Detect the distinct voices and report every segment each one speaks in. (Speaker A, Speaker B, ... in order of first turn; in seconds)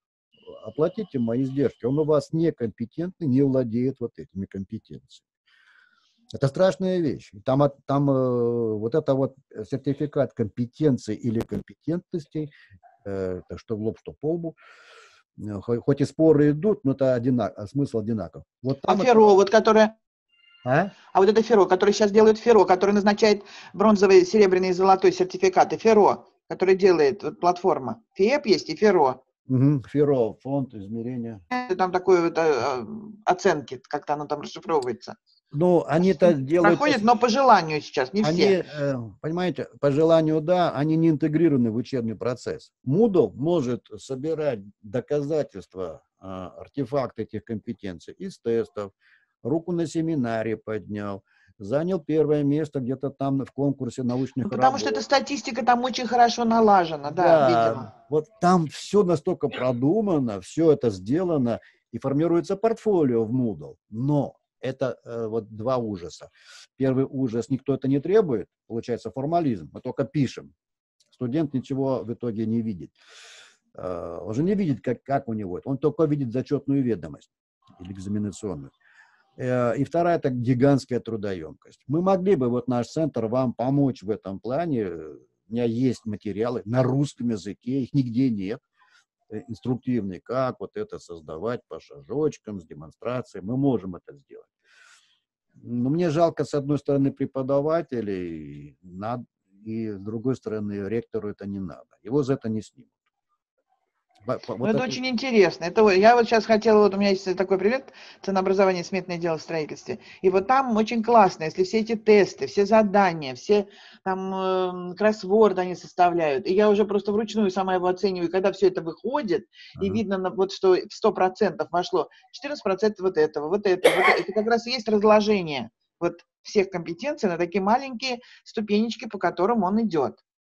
Speaker A: 0.5-5.2, 6.3-12.5, 13.0-14.6, 15.4-19.3, 20.6-20.9, 29.5-31.4, 35.5-37.0, 38.2-48.9, 49.4-55.0, 57.1-70.5, 71.2-73.0, 73.8-78.7, 79.4-88.6, 89.3-94.5, 95.6-102.9, 104.3-105.0, 119.8-120.0
Speaker B: 18.9-19.9, 21.1-29.2, 31.5-35.2, 36.0-38.6, 54.5-57.9, 104.6-130.2